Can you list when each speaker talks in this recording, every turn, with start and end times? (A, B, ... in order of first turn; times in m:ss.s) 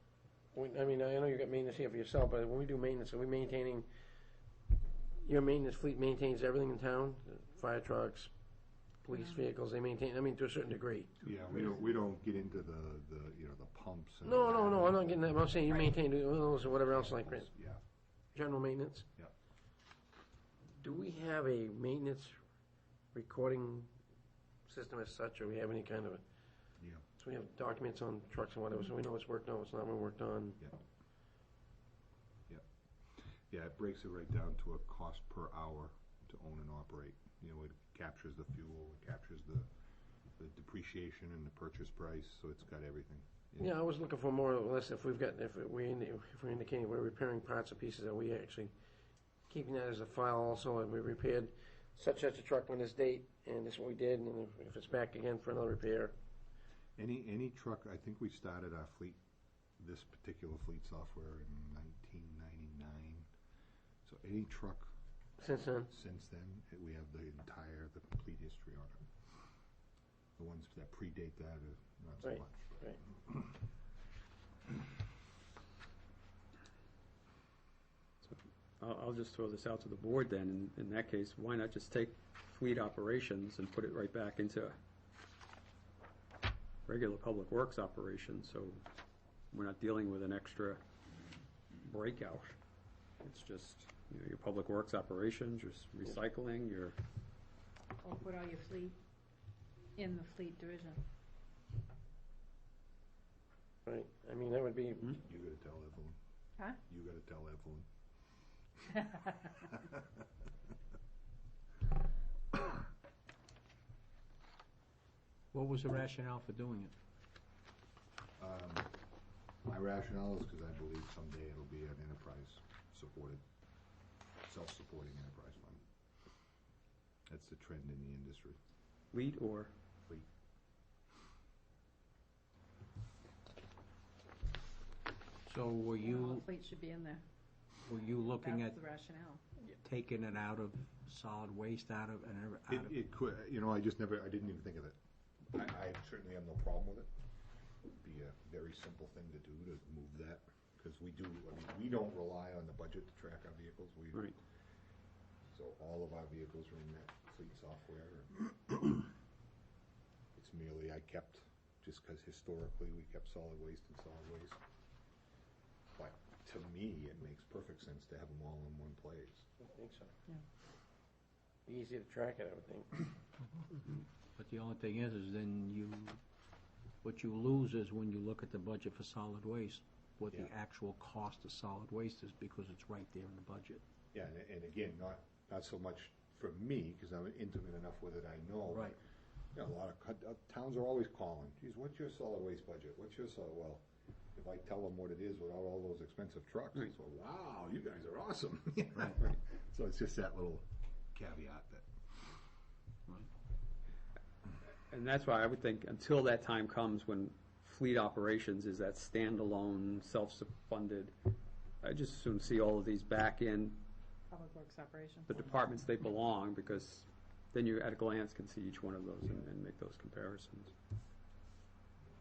0:00.5-0:03.9 A
0:05.2-0:08.3 A
0:09.0-0:11.2 A
0:11.2-0:16.0 B
0:14.2-0:17.5 A
0:17.0-0:17.8 B
0:18.3-0:19.1 A
0:20.8-0:22.4 A
0:23.1-0:23.9 A
0:24.7-0:26.2 A
0:27.2-0:30.6 A
0:33.2-0:39.7 B
0:40.4-0:43.7 B
0:43.6-0:48.8 A
0:49.5-0:56.1 A
0:57.0-0:59.2 B
0:59.8-1:03.3 B
1:04.0-1:04.9 B
1:05.4-1:05.9 A
1:05.9-1:09.1 B
1:10.4-1:13.5 B
1:12.2-1:13.0 A
1:18.2-1:24.8 C
1:26.9-1:28.8 C
1:29.5-1:30.8 C
1:31.8-1:32.6 C
1:33.2-1:37.0 C
1:38.0-1:39.0 D
1:40.0-1:41.0 D
1:43.9-1:45.2 A
1:45.2-1:46.2 B
1:46.9-1:47.9 B
1:48.9-1:50.1 B
1:55.5-1:56.9 E
1:58.4-1:59.0 B
1:59.6-2:03.4 B
2:04.4-2:05.8 B
2:07.3-2:08.6 B
2:09.1-2:09.7 C
2:15.4-2:16.4 E
2:16.0-2:17.2 D
2:17.9-2:18.8 E
2:18.1-2:19.4 D
2:19.8-2:22.9 E
2:22.7-2:25.0 B
2:25.5-2:27.1 B
2:28.0-2:34.4 B
2:35.5-2:39.0 B
2:40.3-2:44.6 B
2:46.0-2:49.5 B
2:49.6-2:50.1 A
2:51.7-2:53.0 A
2:54.4-2:56.2 E
2:57.0-3:03.8 E
3:04.1-3:09.0 B
3:09.5-3:21.9 B
3:24.9-3:31.1 C
3:31.8-3:33.8 C
3:34.3-3:35.3 D
3:35.3-3:40.7 C